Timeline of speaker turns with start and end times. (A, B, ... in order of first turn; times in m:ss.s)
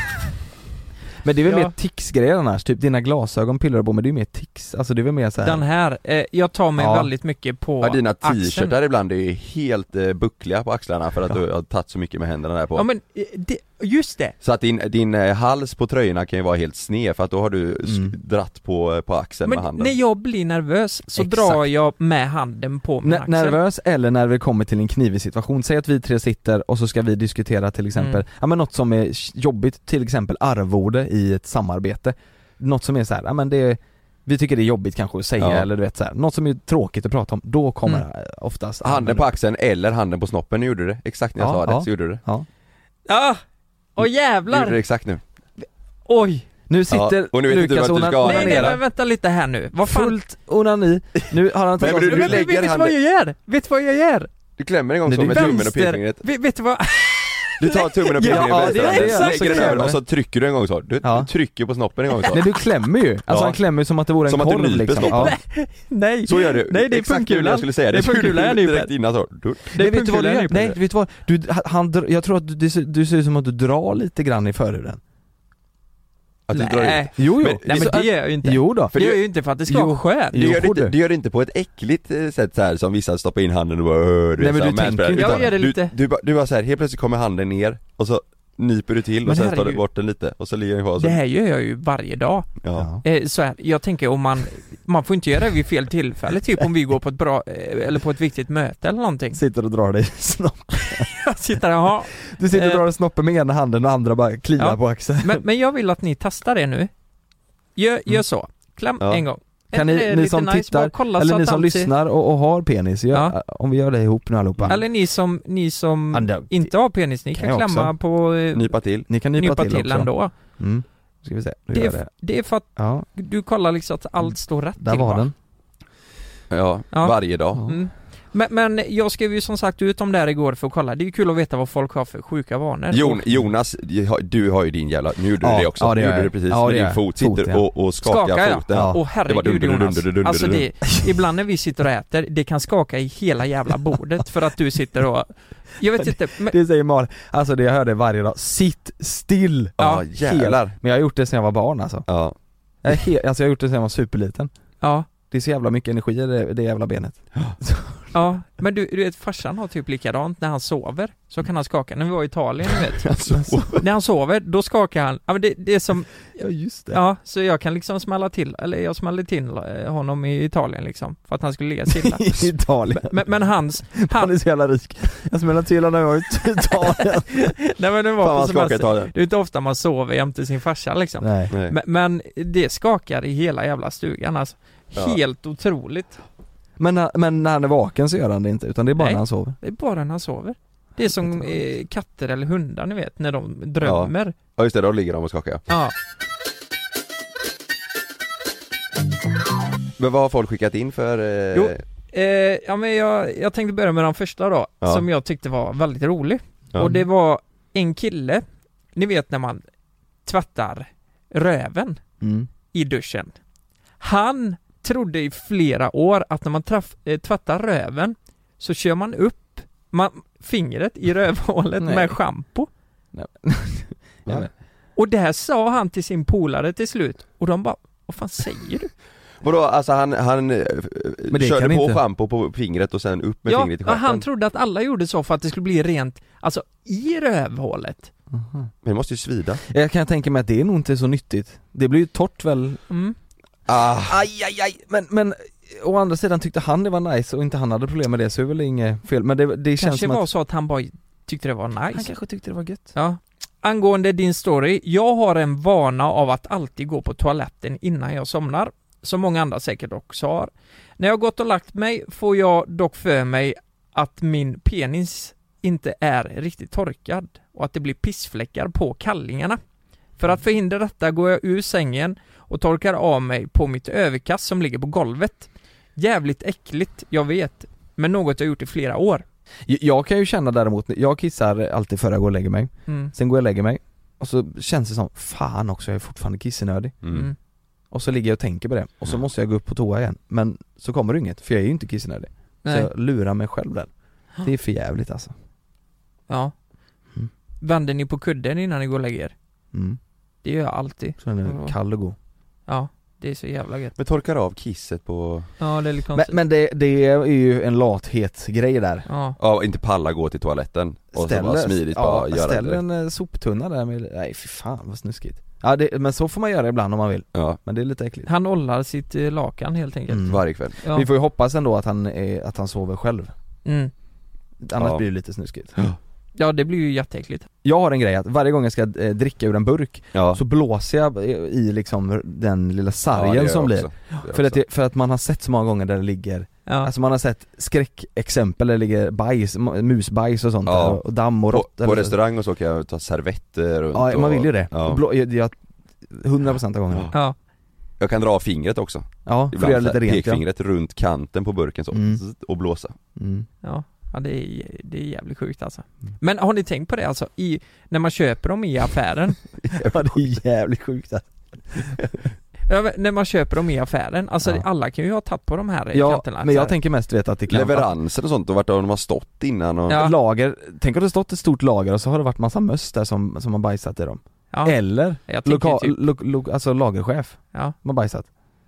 0:01.2-0:05.6 A
0:01.4-0:01.7 B
0:05.4-0:08.7 B
0:06.8-0:07.1 A
0:07.8-0:12.9 C
0:12.7-0:14.3 B
0:14.4-0:19.9 C
0:17.8-0:18.1 A
0:19.4-0:23.6 B
0:21.2-0:21.6 A
0:23.0-0:39.3 A
0:28.0-0:28.2 B
0:35.4-0:35.7 C
0:38.8-0:42.2 C
0:41.4-0:42.5 A
0:43.1-0:43.4 B
0:44.0-0:44.8 B
0:44.5-0:45.2 C
0:46.1-0:46.5 B
0:46.7-0:48.8 A
0:46.9-0:48.8 C
0:48.2-0:50.2 B
0:49.8-0:52.5 A
0:51.8-0:52.9 C
0:51.8-0:54.3 B
0:54.6-0:56.2 C
0:55.0-0:55.6 A
0:55.3-0:59.9 B
0:57.6-1:02.4 C
0:58.2-1:00.0 A
1:01.0-1:01.3 A
1:02.3-1:05.3 A
1:03.3-1:03.6 C
1:04.2-1:05.4 C
1:05.0-1:08.9 B
1:06.2-1:09.7 C
1:09.7-1:10.8 B
1:09.7-1:15.0 A
1:16.5-1:18.1 C
1:16.5-1:20.5 B
1:17.2-1:18.9 A
1:18.9-1:19.2 C
1:19.7-1:21.0 A
1:20.3-1:31.2 C
1:24.4-1:25.6 A
1:25.1-1:25.9 B
1:29.2-1:29.8 B
1:31.0-1:32.5 B
1:32.6-1:32.9 C
1:32.7-1:33.0 A
1:33.0-1:39.4 B
1:39.3-1:41.1 A
1:40.8-1:42.8 B
1:42.2-1:45.4 A
1:44.6-1:46.9 B
1:47.8-1:51.9 B
1:49.7-1:54.8 A
1:54.7-1:58.8 B
1:56.1-1:56.7 A
1:57.3-1:57.9 A
1:58.5-1:59.1 C
1:59.1-2:02.1 A
1:59.4-2:00.3 B
2:01.7-2:05.3 B
2:02.8-2:03.1 A
2:04.8-2:05.3 A
2:06.5-2:07.6 C
2:06.9-2:13.2 B
2:12.9-2:20.7 C
2:15.4-2:17.6 A
2:18.0-2:26.6 B
2:18.7-2:19.0 A
2:26.0-2:32.0 A
2:29.8-2:30.8 C
2:32.1-2:32.4 C
2:32.8-2:34.5 A
2:34.8-2:35.1 B
2:35.3-2:38.1 A
2:38.1-2:43.1 B
2:43.0-2:43.8 C
2:43.3-2:43.8 A
2:43.8-2:46.2 B
2:46.4-2:47.0 A
2:46.9-2:54.3 B
2:51.9-2:53.3 A
2:54.0-2:57.5 A
2:57.0-3:06.2 B
2:58.2-2:59.1 C
3:01.2-3:01.5 A
3:01.5-3:01.8 C
3:06.8-3:09.6 A
3:09.0-3:14.4 B
3:11.2-3:11.5 A
3:13.8-3:15.6 C
3:15.7-3:15.9 B
3:20.0-3:21.8 C
3:21.5-3:28.4 B
3:28.9-3:29.6 B
3:30.2-3:32.0 B
3:32.2-3:32.5 A
3:32.7-3:33.3 B
3:34.0-3:42.7 B
3:41.8-3:42.2 A
3:43.1-3:44.5 A
3:45.0-3:48.9 B
3:49.4-3:54.2 C
3:51.3-3:52.0 A
3:53.4-3:58.1 B
3:58.3-3:58.7 A
3:58.8-3:59.6 C
3:59.7-4:02.8 A
4:02.9-4:03.2 B
4:03.7-4:04.2 C
4:04.0-4:10.2 A
4:09.8-4:12.1 B
4:11.9-4:12.9 A
4:12.9-4:29.6 B
4:30.2-4:39.2 B
4:39.7-4:46.9 A
4:42.9-4:43.1 B
4:47.0-4:47.3 C
4:47.1-4:47.3 B
4:47.9-4:53.9 A
4:52.6-4:52.9 B
4:54.4-4:55.3 A
4:56.3-4:56.5 B
4:57.6-4:59.3 B
4:59.7-5:00.0 A
5:00.4-5:01.7 B
5:01.2-5:02.2 A
5:02.7-5:03.9 B
5:04.0-5:05.5 C
5:05.6-5:06.4 B
5:06.1-5:09.0 A
5:09.1-5:09.4 B
5:09.4-5:12.8 C
5:11.1-5:18.3 A
5:18.2-5:21.1 B
5:20.1-5:23.3 A
5:20.2-5:20.8 C
5:23.6-5:23.9 B
5:24.6-5:25.7 A
5:24.8-5:25.0 C
5:26.4-5:27.5 B
5:27.6-5:42.2 A
5:30.1-5:30.4 C
5:33.1-5:34.6 C
5:36.6-5:36.9 B
5:40.6-5:45.0 C
5:43.9-5:47.1 A
5:48.0-5:52.9 C
5:49.2-5:50.4 A
5:51.9-5:52.2 A
5:53.2-5:53.5 A
5:53.6-5:59.4 B
5:59.7-6:00.0 C
5:59.7-6:02.2 A
6:02.7-6:06.7 B
6:05.9-6:07.9 A
6:07.5-6:10.0 C
6:09.9-6:10.1 B
6:09.9-6:18.3 A
6:14.5-6:16.0 B